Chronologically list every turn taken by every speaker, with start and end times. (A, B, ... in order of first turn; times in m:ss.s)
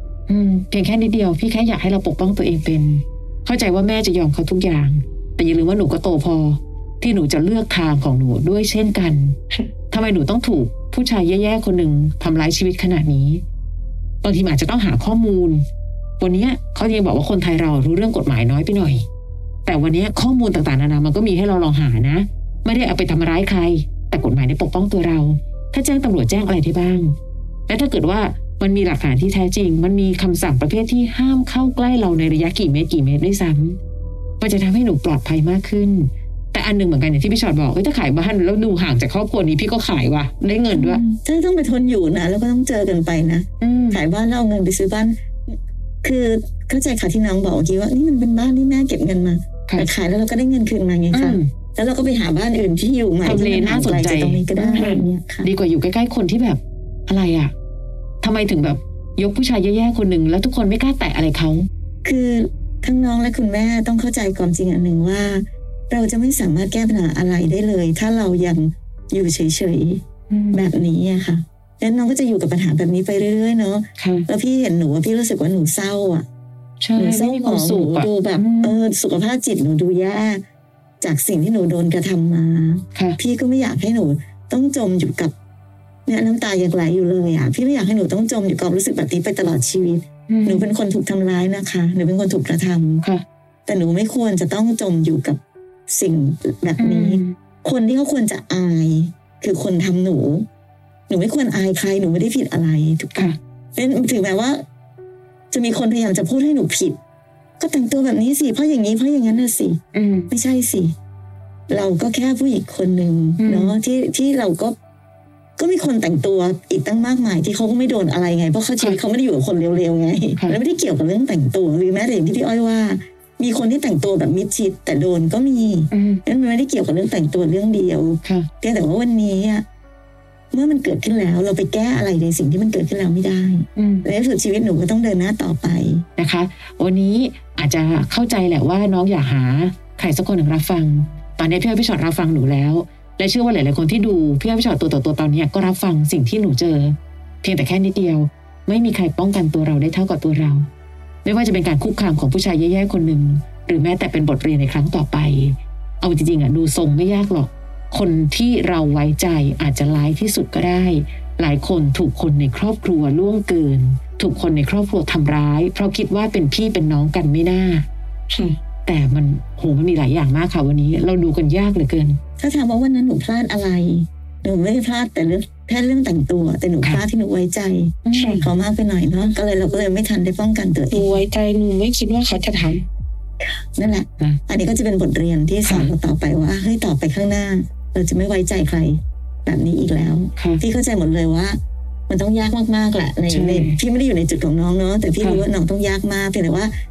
0:00.3-0:09.4 A
0:09.9-0:13.4 A
0:14.2-0:15.6 A
0:16.2-0:19.0 A
0:19.6-0:27.2 A
0:27.7-0:33.8 A
0:34.4-0:41.0 A
0:40.7-0:55.5 B
0:43.6-0:44.0 A
0:51.1-0:51.5 A
0:53.2-0:57.5 A
0:58.2-1:01.7 A
1:02.0-1:16.3 B
1:10.3-1:10.7 A
1:14.0-1:14.3 A
1:16.8-1:18.8 A
1:17.0-1:20.4 B
1:21.0-1:25.3 B
1:26.1-1:33.0 B
1:30.3-1:30.7 A
1:33.7-1:40.5 B
1:36.8-1:37.4 A
1:41.1-1:44.6 B
1:45.5-1:47.0 B
1:47.6-1:50.9 B
1:49.9-1:50.3 A
1:51.7-1:54.8 B
1:53.4-1:53.8 A
1:55.6-2:09.6 B
2:05.9-2:06.2 A
2:08.2-2:08.5 A
2:10.5-2:16.0 B
2:13.8-2:14.1 A
2:16.2-2:30.7 A
2:31.2-2:47.9 A
2:48.3-2:48.6 C
2:48.9-2:52.2 A
2:52.4-3:01.1 B
2:58.0-2:58.4 A
2:58.1-2:58.5 C
3:00.9-3:02.9 C
3:03.4-3:16.7 B
3:05.7-3:05.9 A
3:10.4-3:10.6 A
3:13.3-3:13.8 A
3:15.2-3:15.5 A